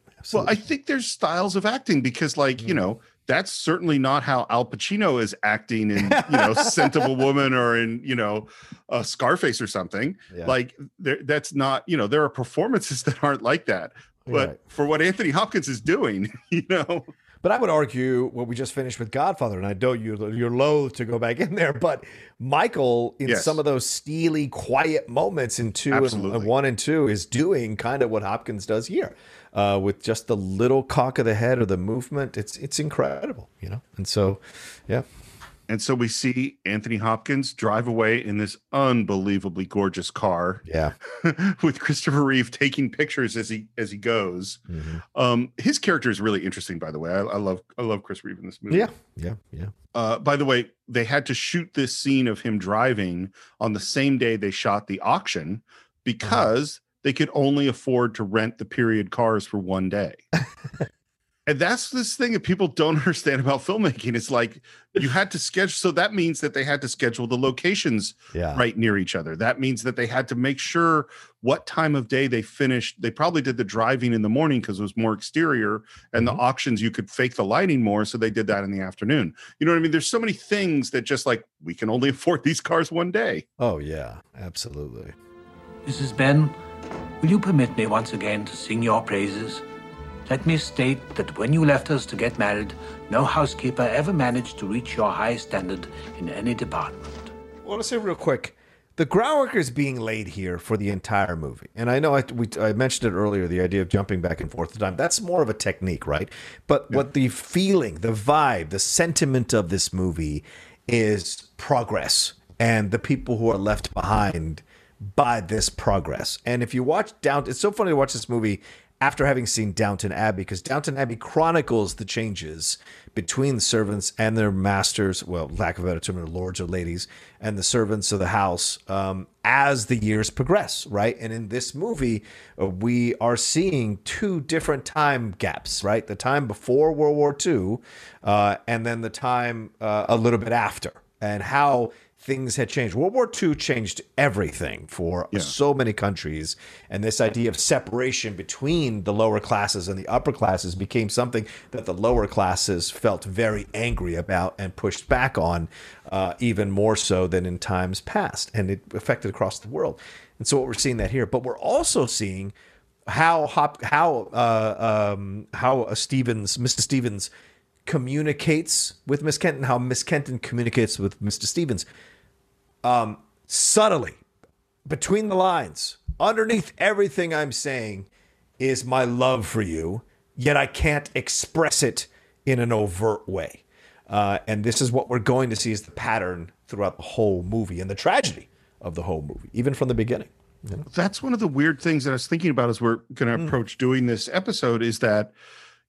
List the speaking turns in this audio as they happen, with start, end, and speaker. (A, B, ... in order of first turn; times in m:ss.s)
0:00.2-0:00.6 A
0:00.3-0:17.1 B
0:06.0-0:07.1 A
0:14.3-0:14.6 A
0:17.4-0:35.0 A
0:23.3-0:23.6 B
0:25.9-0:26.5 B
0:35.7-0:44.6 B
0:40.7-0:41.0 A
0:44.7-0:45.0 A
0:45.1-0:48.9 B
0:48.7-0:49.7 A
0:49.9-1:00.2 B
1:01.5-1:23.4 B
1:08.3-1:08.6 A
1:23.6-1:25.1 A
1:25.8-1:26.6 C
1:27.2-1:29.6 C
1:30.3-1:37.3 C
1:37.6-2:42.5 A
2:43.1-2:47.3 A
2:47.9-2:51.9 A
2:52.8-2:54.2 A
2:54.9-2:58.1 A
2:58.6-3:10.9 A
3:10.9-3:15.3 B